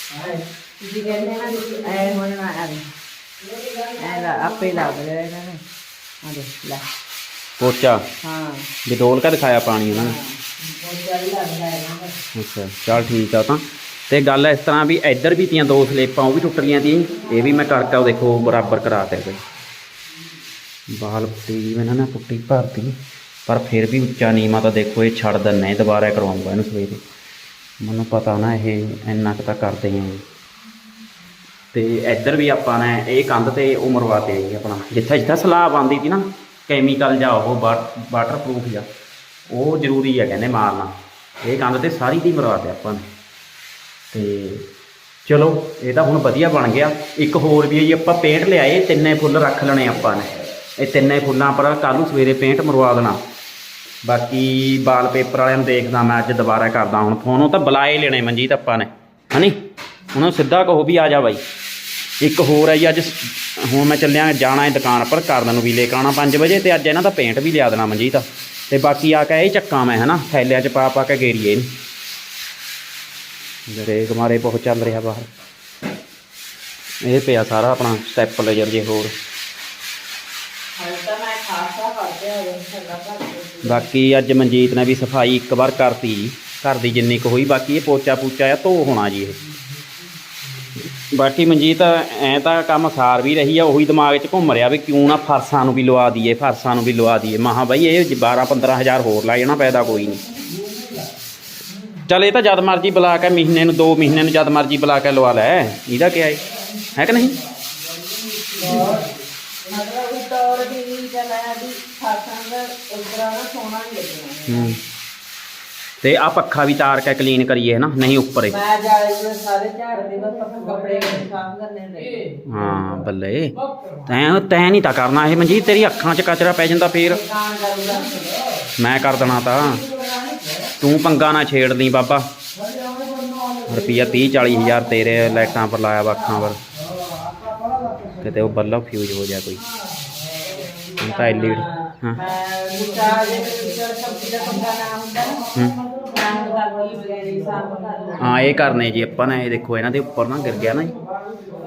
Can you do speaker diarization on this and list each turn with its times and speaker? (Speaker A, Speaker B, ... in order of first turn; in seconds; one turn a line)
Speaker A: 0.1-2.9
Speaker A: 3.9-5.6
Speaker A: 6.2-6.8
Speaker B: 7.6-8.1
Speaker A: 8.2-8.7
Speaker B: 8.8-10.1
Speaker A: 9.9-12.2
Speaker B: 12.3-19.4
Speaker B: 20.9-27.0
Speaker B: 27.8-30.2
Speaker B: 31.7-38.9
Speaker B: 39.5-43.0
Speaker B: 44.1-44.7
Speaker B: 45.2-53.2
Speaker B: 54.0-59.5
Speaker B: 60.1-61.4
Speaker B: 62.2-71.7
Speaker B: 73.7-75.3
Speaker B: 77.0-79.1
Speaker A: 80.8-83.9
Speaker B: 83.6-89.4
Speaker B: 91.0-100.2
Speaker B: 102.0-107.4
Speaker A: 108.5-109.1
Speaker A: 109.6-114.8
Speaker B: 114.5-114.8
Speaker B: 116.0-118.6
Speaker A: 118.5-122.5
Speaker B: 122.4-127.2
Speaker A: 127.0-128.3
Speaker B: 128.8-129.9
Speaker B: 130.8-132.3
Speaker B: 133.7-136.6
Speaker B: 138.2-139.6
Speaker A: 140.4-148.8
Speaker B: 141.0-142.2
Speaker B: 145.5-145.8
Speaker B: 148.2-150.9